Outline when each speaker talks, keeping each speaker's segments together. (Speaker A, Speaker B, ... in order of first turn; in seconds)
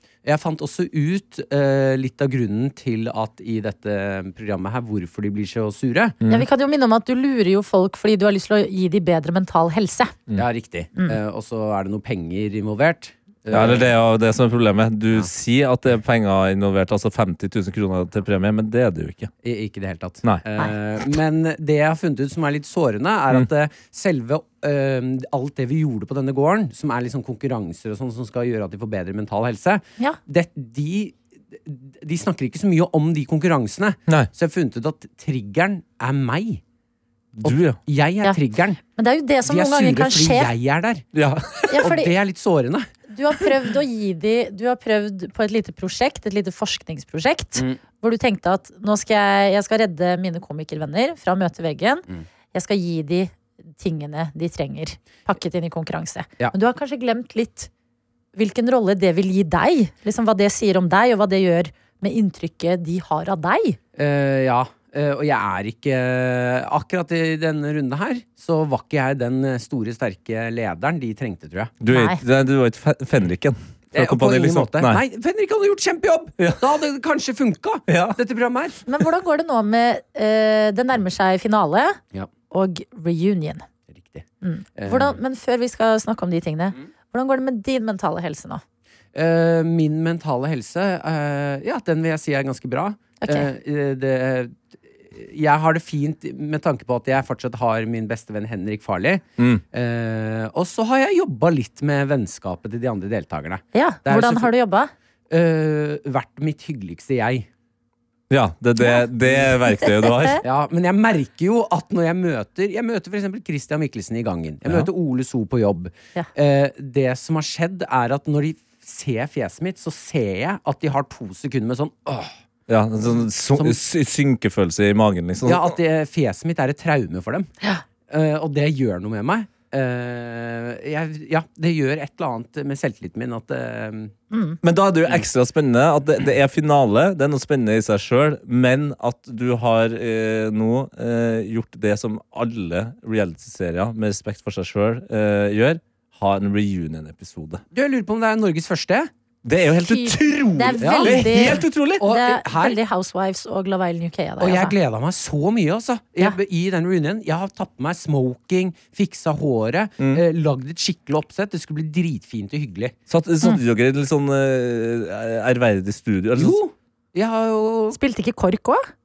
Speaker A: 0.2-6.2, 10.3-13.9, 19.4-36.6, 37.4-38.8, 39.4-41.0, 41.8-42.9, 47.5-47.8, 64.0-71.7, 73.9-78.8, 83.9-84.2, 84.8-85.2, 89.1-104.5, 105.3-107.5, 110.4-122.3, 123.5-123.8, 125.4-127.5, 128.1-134.1, 147.7-149.1, 150.8-152.8, 154.4-162.9, 166.3-168.0
Speaker B: 6.2-6.5, 13.5-19.3, 37.4-37.8, 41.1-41.8, 71.8-75.0, 76.4-76.7, 77.9-78.2, 99.4-99.6, 108.3-110.4, 114.6-114.9, 122.7-125.8, 134.6-147.6, 149.4-152.1, 160.0-160.2, 163.1-166.6
Speaker C: 6.3-10.1, 38.9-40.5, 41.7-42.1, 43.1-57.7, 58.4-63.8, 71.9-72.2, 78.8-82.0, 82.5-83.7, 84.4-88.6, 103.7-104.9, 109.6-110.4, 134.3-134.6, 149.8-154.7, 167.9-168.9